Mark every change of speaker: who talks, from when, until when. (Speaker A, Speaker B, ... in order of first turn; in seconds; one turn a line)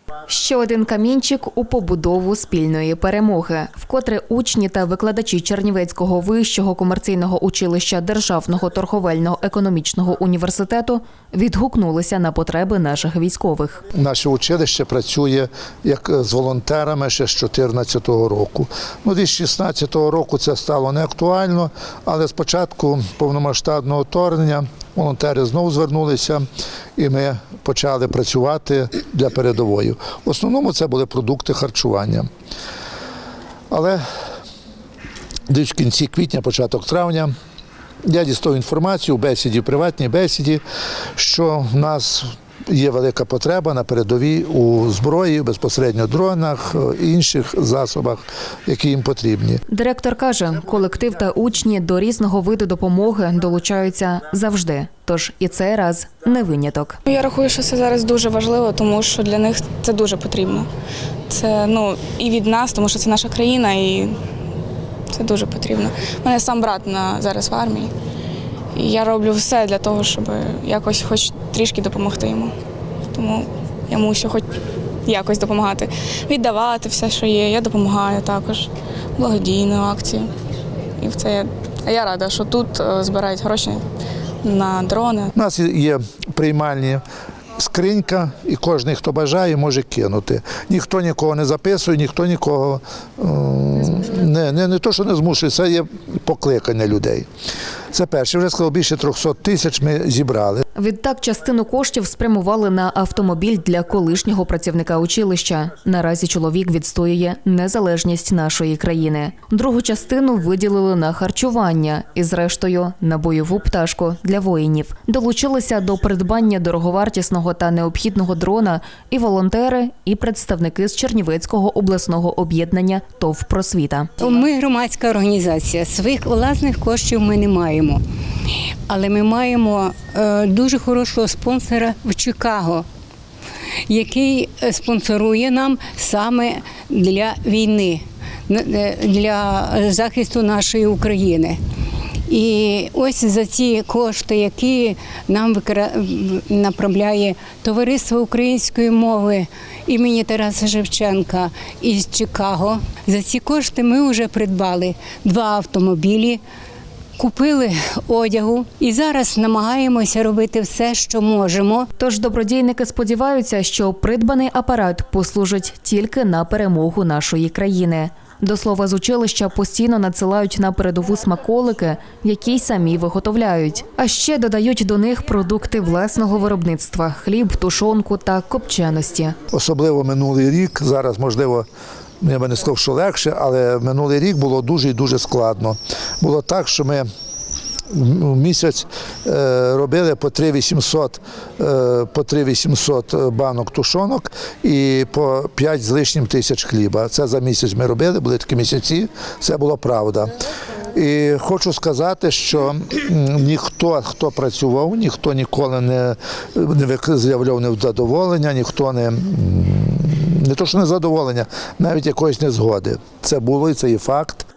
Speaker A: 0.3-13.8
Speaker B: 13.9-26.4
Speaker B: 27.0-32.3
Speaker B: 33.7-34.0
Speaker B: 35.5-37.3
Speaker B: 38.0-40.6
Speaker B: 41.2-49.6
Speaker A: 49.7-57.0
Speaker C: 57.1-60.7
Speaker C: 61.3-64.2
Speaker C: 65.1-67.9
Speaker C: 68.8-72.5
Speaker C: 73.1-74.5
Speaker C: 75.1-80.3
Speaker C: 81.0-83.8
Speaker C: 84.4-85.3
Speaker B: 85.3-87.0
Speaker B: 87.6-97.3
Speaker B: 97.9-100.6
Speaker A: 100.8-124.1
Speaker D: 124.2-128.0
Speaker D: 128.9-132.9
Speaker D: 133.9-141.6
Speaker D: 142.3-156.4
Speaker D: 157.2-161.9
Speaker A: 162.0-179.4
Speaker B: 179.5-181.7
Speaker B: 182.2-187.1
Speaker B: 187.9-200.4
Speaker B: 200.9-214.5